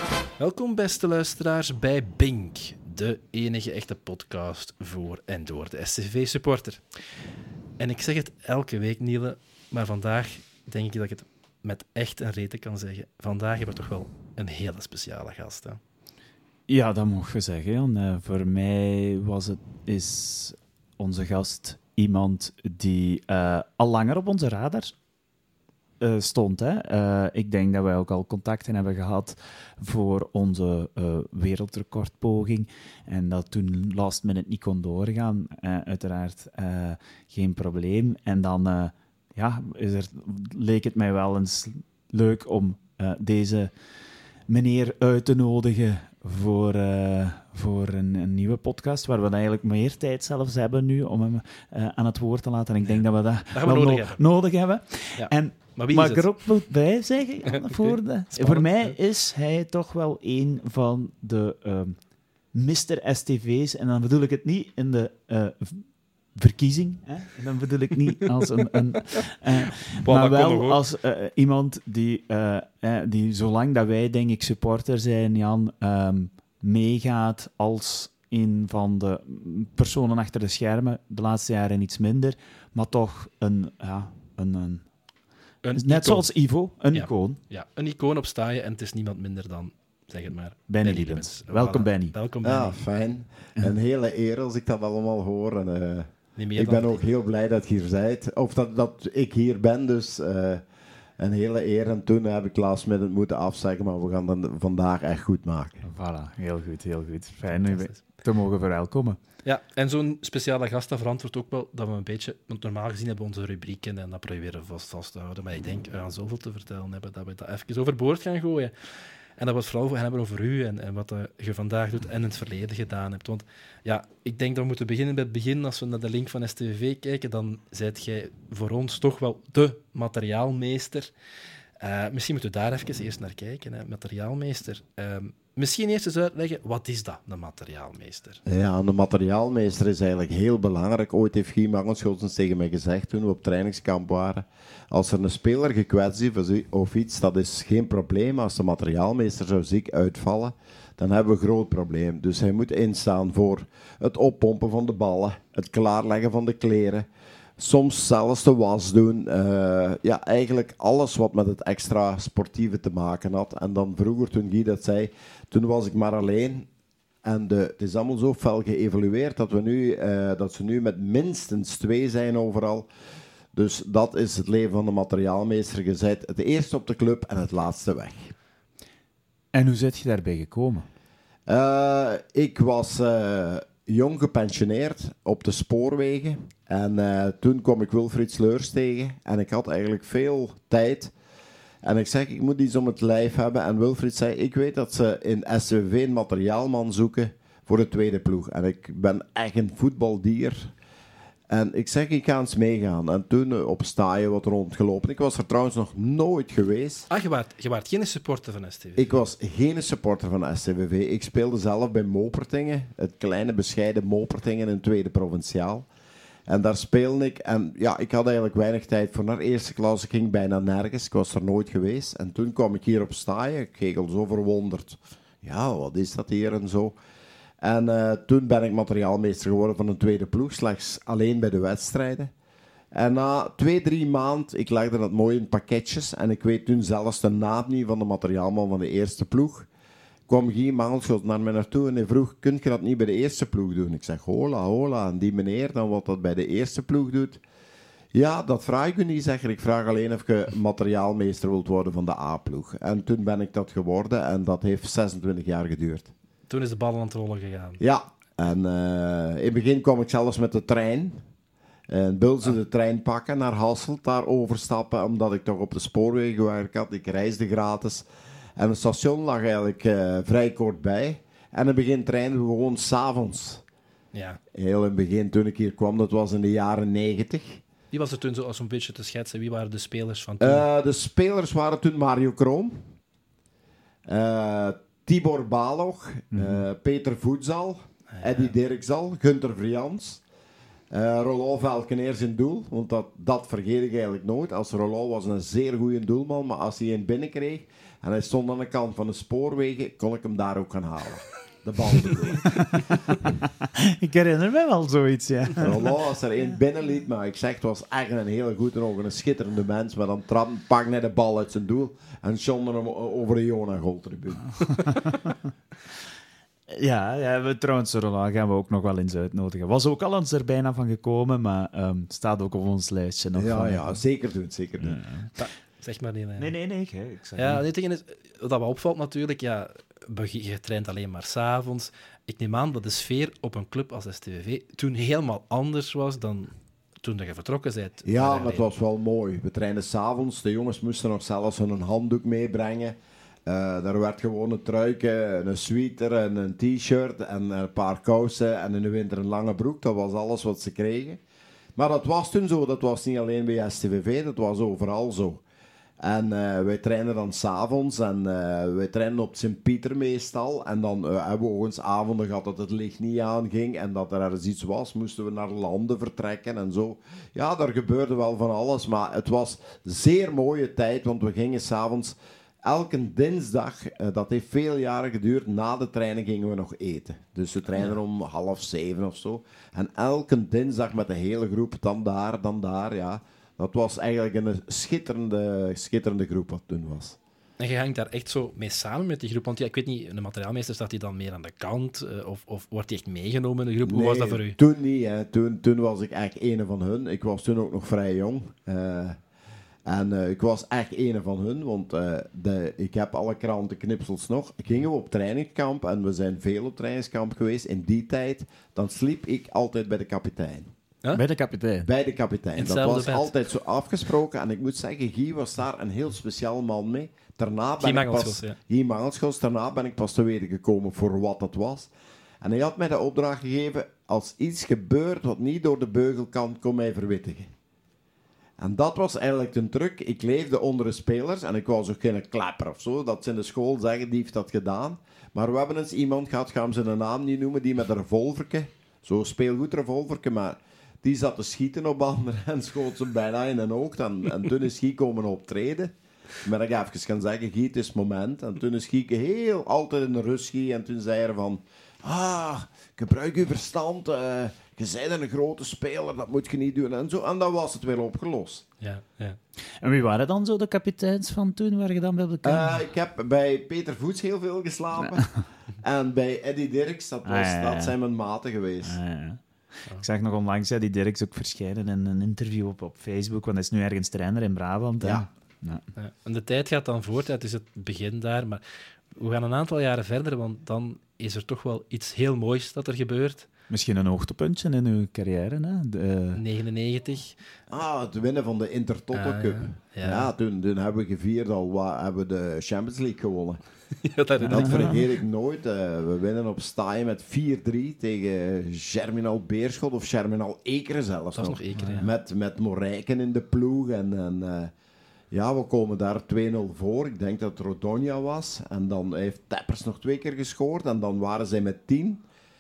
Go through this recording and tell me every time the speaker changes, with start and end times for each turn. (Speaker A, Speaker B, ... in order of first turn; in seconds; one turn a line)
Speaker A: 0.4-6.8
Speaker A: 7.8-15.8
Speaker B: 16.7-24.9
Speaker B: 26.0-43.7
Speaker B: 44.5-85.0
Speaker A: 52.8-54.2
Speaker A: 55.2-56.4
Speaker A: 57.5-59.0
Speaker A: 70.0-70.8
Speaker A: 85.6-86.3
Speaker B: 85.8-87.4
Speaker A: 86.9-92.8
Speaker B: 90.7-92.1
Speaker C: 92.4-100.6
Speaker A: 96.3-97.0
Speaker C: 101.2-105.8
Speaker B: 105.8-109.2
Speaker A: 107.5-108.0
Speaker A: 109.4-131.1
Speaker A: 131.8-138.4
Speaker C: 138.4-157.1
Speaker C: 157.6-166.7
Speaker C: 167.2-172.9
Speaker C: 173.5-178.3
Speaker B: 179.5-180.8
Speaker C: 181.5-191.1
Speaker C: 191.8-200.7
Speaker C: 201.5-207.1
Speaker A: 207.1-209.0
Speaker C: 208.9-215.9
Speaker C: 216.5-226.9
Speaker C: 227.6-232.3
Speaker C: 232.9-239.7
Speaker C: 240.3-247.4
Speaker C: 248.1-256.1
Speaker A: 256.5-257.8
Speaker C: 257.8-261.2
Speaker C: 261.9-273.6
Speaker A: 274.1-274.4
Speaker C: 274.5-277.6
Speaker A: 277.9-280.6
Speaker C: 280.4-282.8
Speaker C: 284.1-290.2
Speaker B: 286.3-286.6
Speaker A: 288.1-288.5
Speaker C: 290.9-302.7
Speaker B: 303.8-305.9
Speaker C: 305.6-315.0
Speaker B: 316.7-324.0
Speaker C: 323.3-325.0
Speaker B: 324.8-325.3
Speaker A: 325.4-326.5
Speaker B: 326.4-327.6
Speaker A: 327.4-338.6
Speaker C: 338.0-342.9
Speaker C: 343.4-351.2
Speaker C: 351.8-355.4
Speaker C: 356.0-387.2
Speaker A: 387.6-394.6
Speaker C: 393.9-399.2
Speaker C: 399.9-410.7
Speaker B: 411.1-411.9
Speaker C: 411.8-421.9
Speaker A: 412.6-413.3
Speaker A: 417.8-418.6
Speaker C: 422.4-427.5
Speaker C: 428.6-458.6
Speaker A: 458.8-459.4
Speaker B: 459.8-462.8
Speaker C: 462.4-469.0
Speaker B: 467.2-467.9
Speaker B: 468.8-469.4
Speaker B: 470.0-475.8
Speaker A: 475.9-478.6
Speaker A: 479.1-483.5
Speaker B: 483.7-486.4
Speaker A: 486.3-487.4
Speaker C: 487.7-493.6
Speaker A: 489.1-490.3
Speaker A: 494.0-494.9
Speaker C: 494.4-504.7
Speaker B: 494.5-494.9
Speaker A: 501.3-502.1
Speaker B: 501.8-502.0
Speaker C: 505.3-512.2